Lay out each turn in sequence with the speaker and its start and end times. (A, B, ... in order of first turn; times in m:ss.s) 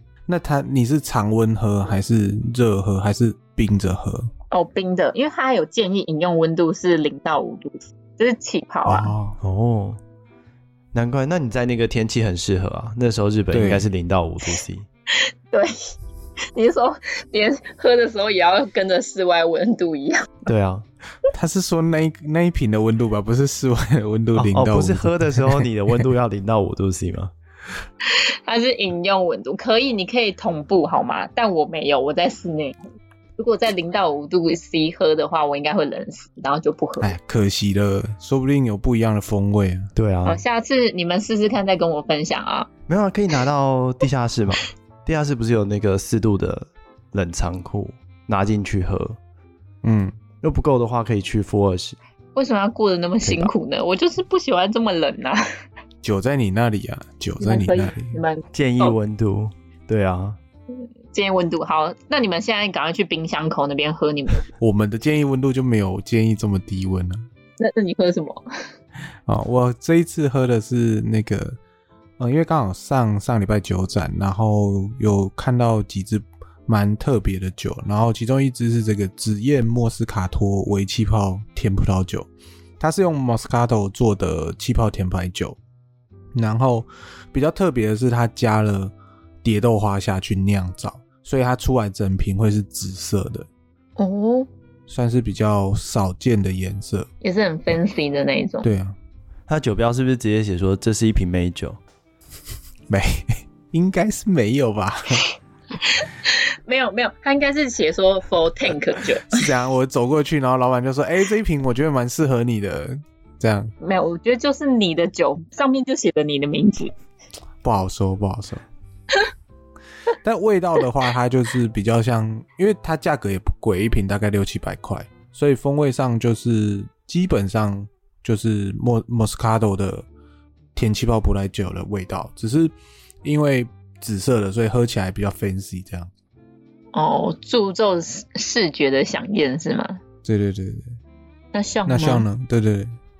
0:00.3-0:04.3 A
0:04.5-0:09.1 B
0:08.8-0:09.4 A
0:09.4-0:10.0 C
0:10.9-0:14.9 C
0:13.5-0:13.8 A
0:15.1-0:16.0 B
0:16.5-0:20.5 B
0:20.4-0:20.9 C
0:21.3-0:25.7 A
0:24.3-0:27.3 C
0:28.0-0:37.2 B
0:37.0-0:39.9 A
0:40.0-0:40.4 C
0:40.2-0:42.7 B
0:42.9-0:49.2 C
0:49.8-0:50.1 A
0:50.4-0:52.0 C
0:52.3-0:55.5 B
0:53.2-0:53.5 C
0:56.0-0:58.2 A
0:57.4-0:59.0 B
0:58.5-1:00.4 C
1:00.7-1:04.5 B
1:04.6-1:07.3 A
1:07.6-1:08.4 B
1:09.3-1:11.6 A
1:12.2-1:25.6 A
1:26.3-1:33.5 A
1:34.0-1:34.5 B
1:34.9-1:37.1 A
1:37.2-1:38.7 B
1:38.6-1:39.0 A
1:39.5-1:41.8 C
1:42.9-1:45.2 A
1:45.8-1:49.4 B
1:49.3-1:53.7 A
1:53.8-1:56.9 B
1:57.6-1:58.6 A
2:00.2-2:10.0 A
2:10.7-2:16.1 A
2:16.9-2:20.0 B
2:20.2-2:21.0 A
2:21.5-2:22.2 B
2:21.9-2:23.0 A